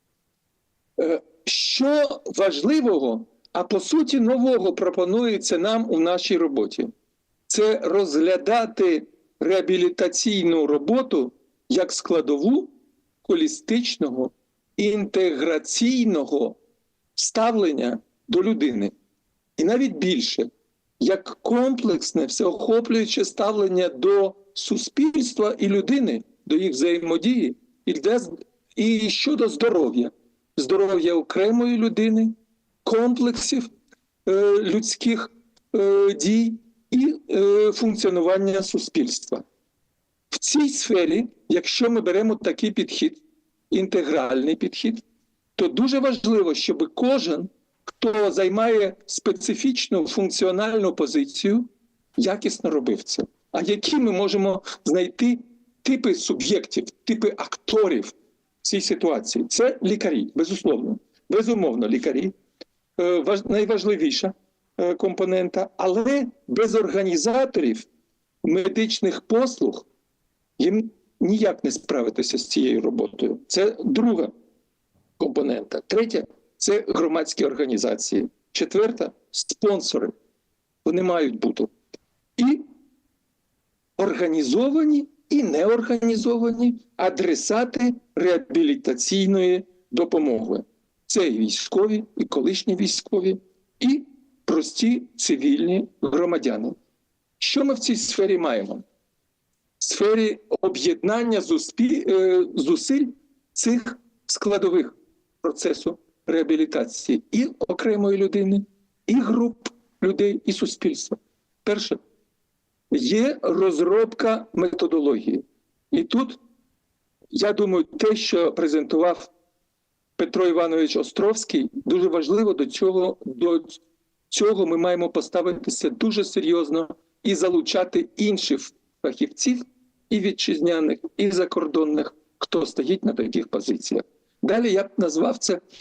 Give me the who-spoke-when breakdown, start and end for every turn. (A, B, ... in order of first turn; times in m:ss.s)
0:01.0-0:06.9 A
0:07.5-0:12.7 A
0:13.2-0:16.6 A
0:17.2-0:18.9 A
0:19.6-0:20.5 A
0:21.0-0:33.7 A
0:34.3-0:39.4 A
0:40.3-0:45.0 A
0:45.6-1:02.3 A
1:03.0-1:07.9 A
1:08.4-1:09.9 A
1:10.6-1:14.3 A
1:15.2-1:20.1 A
1:20.8-1:21.7 A
1:22.4-1:22.6 A
1:24.0-1:36.8 A
1:37.4-1:38.8 A
1:39.8-1:52.0 A
1:52.9-1:56.4 A
1:57.3-1:59.3 A
2:00.2-2:15.6 A